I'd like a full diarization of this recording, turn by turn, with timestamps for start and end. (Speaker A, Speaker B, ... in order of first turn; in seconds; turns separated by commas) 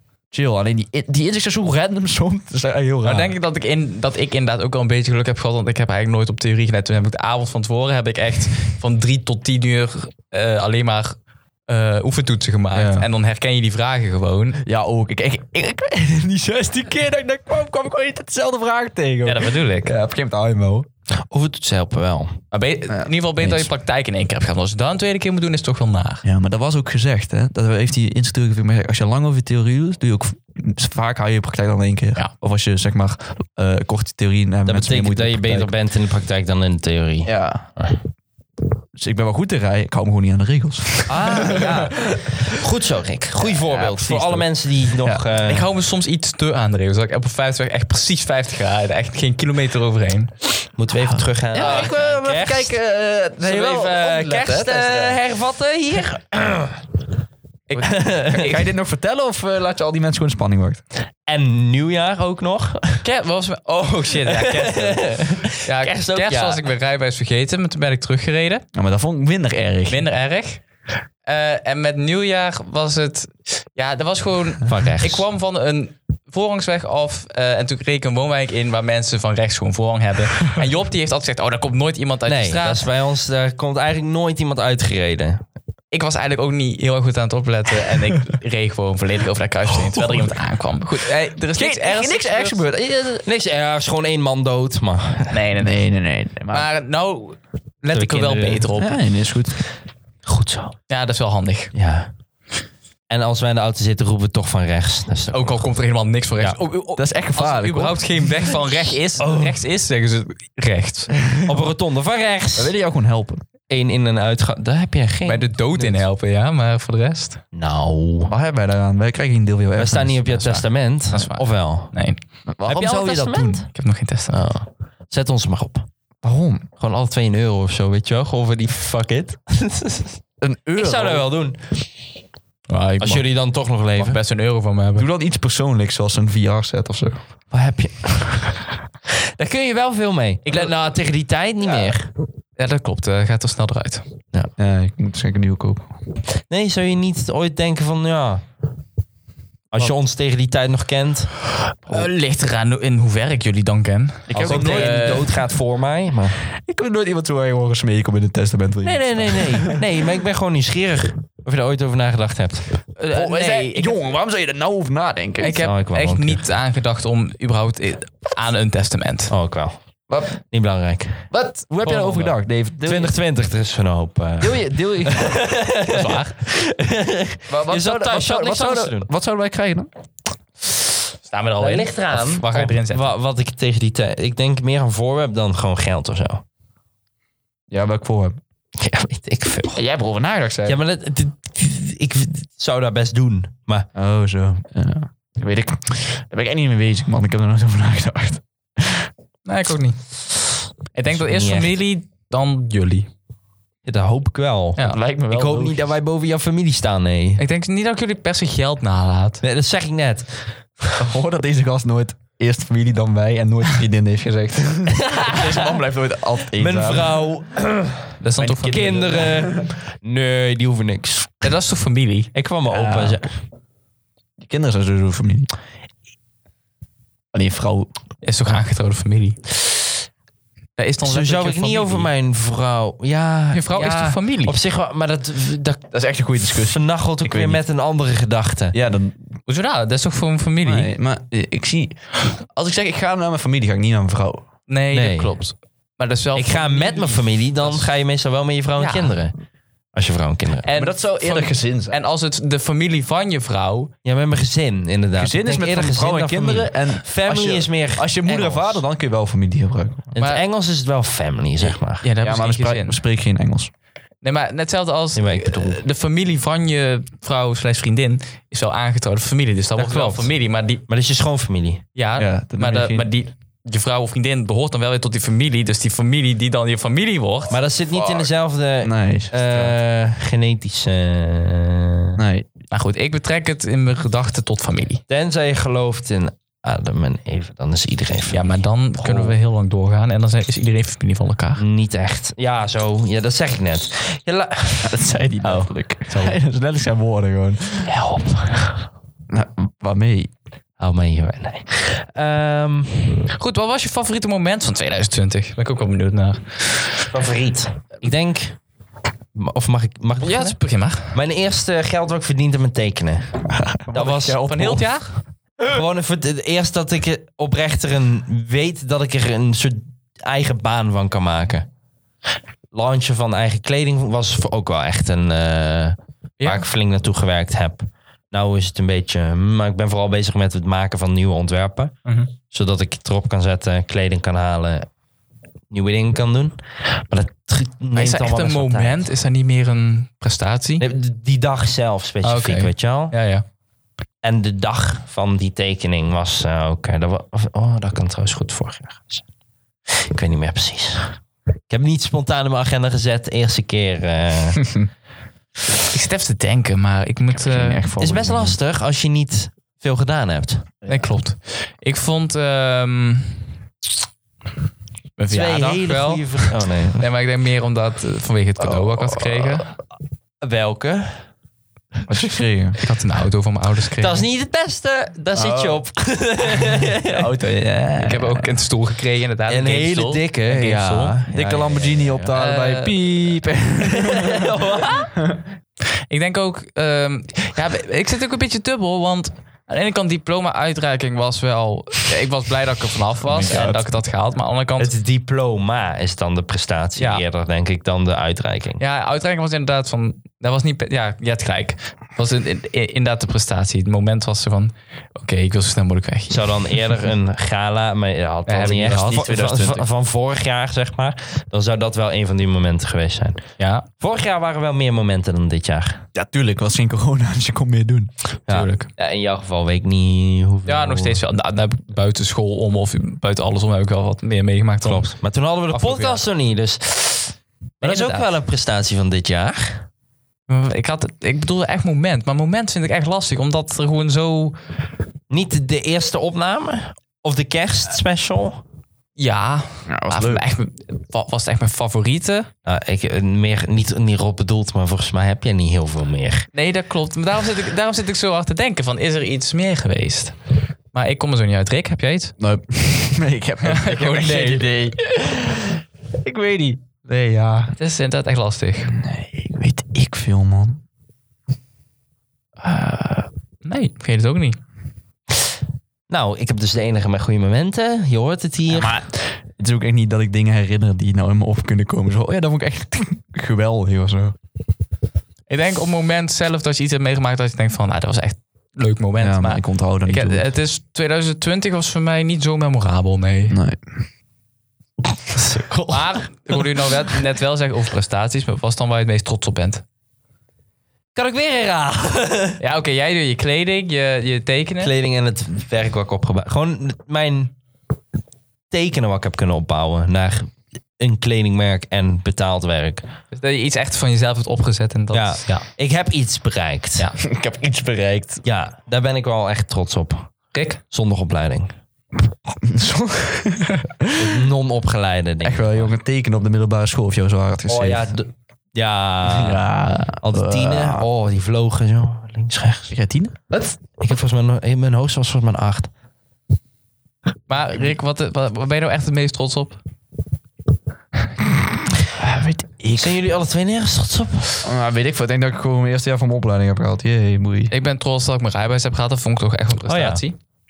Speaker A: 0.3-3.4, Speaker B: 3.0-14.6, Speaker A: 12.7-13.1, Speaker A: 14.6-20.9, Speaker B: 19.2-19.9, Speaker C: 21.2-22.4, Speaker B: 22.5-26.2, Speaker A: 22.9-23.7, Speaker A: 26.2-35.7, Speaker C: 34.7-37.9, Speaker A: 37.2-37.7, Speaker A: 38.9-42.5, Speaker C: 41.1-45.7, Speaker A: 43.4-45.2, Speaker B: 45.4-50.3, Speaker C: 50.8-52.7, Speaker A: 51.2-55.2, Speaker B: 51.5-51.9, Speaker C: 53.4-56.8, Speaker B: 57.7-58.6, Speaker C: 57.8-58.6, Speaker A: 58.3-60.8, Speaker C: 61.2-63.0, Speaker B: 63.0-68.6, Speaker C: 64.2-66.6, Speaker A: 68.7-70.0, Speaker B: 69.9-70.6, Speaker B: 71.2-82.9, Speaker C: 74.7-75.2, Speaker C: 82.3-85.4, Speaker B: 85.9-92.6, Speaker A: 91.5-93.2, Speaker C: 93.2-95.4, Speaker B: 95.3-95.8, Speaker A: 95.6-96.7, Speaker B: 96.5-99.0, Speaker C: 97.9-98.7, Speaker A: 98.8-99.6, Speaker C: 100.2-100.8, Speaker B: 100.9-101.7, Speaker C: 101.7-102.1, Speaker C: 103.1-105.6, Speaker B: 105.3-111.2, Speaker A: 107.0-108.6, Speaker C: 109.2-109.6, Speaker A: 111.2-111.6, Speaker C: 111.4-112.7, Speaker A: 112.5-113.4, Speaker C: 113.7-115.5, Speaker B: 115.2-117.4, Speaker C: 117.5-118.3, Speaker A: 118.3-120.5, Speaker C: 119.8-121.9, Speaker B: 120.3-122.2, Speaker A: 122.5-123.6, Speaker C: 122.7-123.7, Speaker B: 123.7-124.4, Speaker C: 124.3-125.8, Speaker A: 126.2-126.7, Speaker C: 126.8-130.2, Speaker A: 130.4-131.3, Speaker C: 130.8-131.8, Speaker B: 132.7-133.3, Speaker C: 133.0-134.2, Speaker B: 134.0-135.1, Speaker A: 134.9-137.2, Speaker C: 137.5-138.6, Speaker C: 139.3-142.1, Speaker B: 140.4-140.7, Speaker B: 142.6-144.0, Speaker A: 144.6-145.9, Speaker C: 146.5-148.4, Speaker C: 149.7-151.3, Speaker B: 151.8-155.3, Speaker A: 154.3-155.3, Speaker C: 154.3-156.4, Speaker A: 156.5-159.8, Speaker C: 158.8-162.8, Speaker B: 163.0-164.0, Speaker A: 163.1-165.6, Speaker B: 165.4-169.3, Speaker C: 165.5-166.4, Speaker C: 169.3-169.7, Speaker C: 170.4-171.2, Speaker A: 171.3-173.1, Speaker B: 171.4-172.4, Speaker C: 172.8-179.1, Speaker A: 174.4-175.4, Speaker B: 175.9-176.4, Speaker A: 177.5-179.9, Speaker B: 181.3-183.1, Speaker C: 181.6-186.4, Speaker A: 187.7-188.4, Speaker C: 188.8-189.8, Speaker A: 189.7-190.8, Speaker C: 190.7-193.9, Speaker A: 193.9-199.1, Speaker B: 199.4-200.0, Speaker B: 200.9-203.1, Speaker C: 201.1-201.7, Speaker C: 203.8-204.8, Speaker A: 204.8-205.9, Speaker C: 205.3-207.4, Speaker B: 207.4-209.4, Speaker C: 209.4-211.0, Speaker A: 211.0-217.2, Speaker C: 214.9-215.8, Speaker C: 216.5-218.2, Speaker B: 218.2-219.1, Speaker A: 218.4-219.7, Speaker C: 218.7-221.4, Speaker B: 221.4-222.3, Speaker C: 222.3-223.3, Speaker A: 222.7-223.2, Speaker A: 224.4-225.5, Speaker A: 227.3-227.9, Speaker B: 228.2-229.4, Speaker B: 230.8-232.1, Speaker C: 231.0-235.9, Speaker B: 233.5-234.6, Speaker A: 235.9-237.6, Speaker C: 236.6-238.8, Speaker A: 238.7-239.2, Speaker B: 239.5-240.9, Speaker A: 240.6-244.4, Speaker B: 244.7-247.9, Speaker C: 244.9-245.3, Speaker C: 246.3-249.3, Speaker B: 248.8-249.1, Speaker C: 249.9-250.7, Speaker B: 250.6-253.9, Speaker A: 250.7-252.0, Speaker C: 254.0-258.8, Speaker A: 255.2-260.1, Speaker C: 260.1-262.1, Speaker B: 260.2-260.4, Speaker B: 262.0-263.0, Speaker A: 262.2-263.7, Speaker B: 264.2-270.8, Speaker C: 265.1-265.8, Speaker C: 269.8-270.3, Speaker C: 270.9-271.8, Speaker B: 271.9-277.6, Speaker A: 272.2-273.1, Speaker C: 277.5-282.2, Speaker A: 277.9-279.8, Speaker A: 282.1-282.5, Speaker B: 282.7-285.0, Speaker C: 285.1-289.4, Speaker B: 288.3-291.6, Speaker C: 291.6-294.9, Speaker A: 294.8-297.9, Speaker B: 295.4-296.4, Speaker C: 297.8-298.8, Speaker A: 299.3-300.3, Speaker C: 300.8-303.3, Speaker B: 303.4-307.1, Speaker C: 307.1-308.6, Speaker C: 309.4-310.6, Speaker B: 310.2-311.2, Speaker C: 311.1-313.3, Speaker A: 313.5-314.9, Speaker C: 313.9-314.4, Speaker B: 313.9-315.2, Speaker C: 315.6-321.7, Speaker C: 322.7-331.9, Speaker B: 326.4-326.7, Speaker B: 332.1-332.3, Speaker C: 332.5-334.9, Speaker C: 335.7-339.1, Speaker B: 337.9-340.9, Speaker C: 340.8-343.1, Speaker B: 342.2-343.4, Speaker C: 344.2-349.2, Speaker C: 349.9-354.7, Speaker B: 355.9-357.8, Speaker A: 357.3-358.6, Speaker C: 358.0-360.8, Speaker A: 360.8-361.1, Speaker B: 360.9-363.5, Speaker B: 365.2-369.7, Speaker C: 365.3-367.1, Speaker C: 370.4-371.2, Speaker A: 372.1-372.8, Speaker B: 372.8-374.2, Speaker C: 374.0-377.3, Speaker A: 375.3-375.8, Speaker A: 376.5-378.6, Speaker B: 378.0-381.2, Speaker C: 379.5-382.3, Speaker A: 381.2-385.4, Speaker B: 382.3-383.0, Speaker C: 383.8-385.1, Speaker B: 386.1-394.9, Speaker A: 393.2-393.9, Speaker C: 394.8-398.8, Speaker B: 397.0-397.2, Speaker B: 398.8-406.8, Speaker C: 406.3-413.4, Speaker B: 408.5-409.3, Speaker A: 408.9-409.9, Speaker B: 413.6-413.9, Speaker C: 414.0-416.0, Speaker A: 416.1-418.1, Speaker C: 418.5-421.2, Speaker B: 418.5-418.9, Speaker B: 420.7-425.1, Speaker C: 424.8-429.9, Speaker B: 425.7-426.2, Speaker B: 427.8-428.3, Speaker B: 430.5-434.6, Speaker C: 435.3-438.6, Speaker B: 439.2-442.5, Speaker A: 439.9-440.4, Speaker C: 442.6-446.5, Speaker B: 446.5-450.4, Speaker B: 450.9-452.3, Speaker A: 452.4-455.6, Speaker B: 453.6-454.9, Speaker B: 456.2-456.8, Speaker A: 456.8-457.7, Speaker B: 457.8-458.9, Speaker A: 458.9-460.8, Speaker B: 462.6-464.6, Speaker C: 466.1-468.9, Speaker A: 468.7-474.4, Speaker B: 475.5-483.6, Speaker A: 479.2-480.4, Speaker A: 483.5-483.8, Speaker C: 485.4-485.9, Speaker B: 485.9-489.8, Speaker C: 491.1-492.6, Speaker B: 492.6-494.9, Speaker C: 494.8-497.5, Speaker C: 498.7-503.1, Speaker B: 503.3-505.6, Speaker C: 505.1-507.1, Speaker A: 507.2-508.4, Speaker C: 508.4-511.7, Speaker A: 512.5-514.4, Speaker C: 514.1-515.9, Speaker A: 515.4-518.2, Speaker C: 517.7-519.6, Speaker A: 519.2-521.1, Speaker C: 520.2-522.9, Speaker A: 522.9-523.5, Speaker C: 523.8-525.9, Speaker B: 527.5-529.8, Speaker A: 532.2-533.2, Speaker C: 533.0-534.6, Speaker A: 534.6-537.7, Speaker B: 537.7-540.4, Speaker C: 539.9-540.2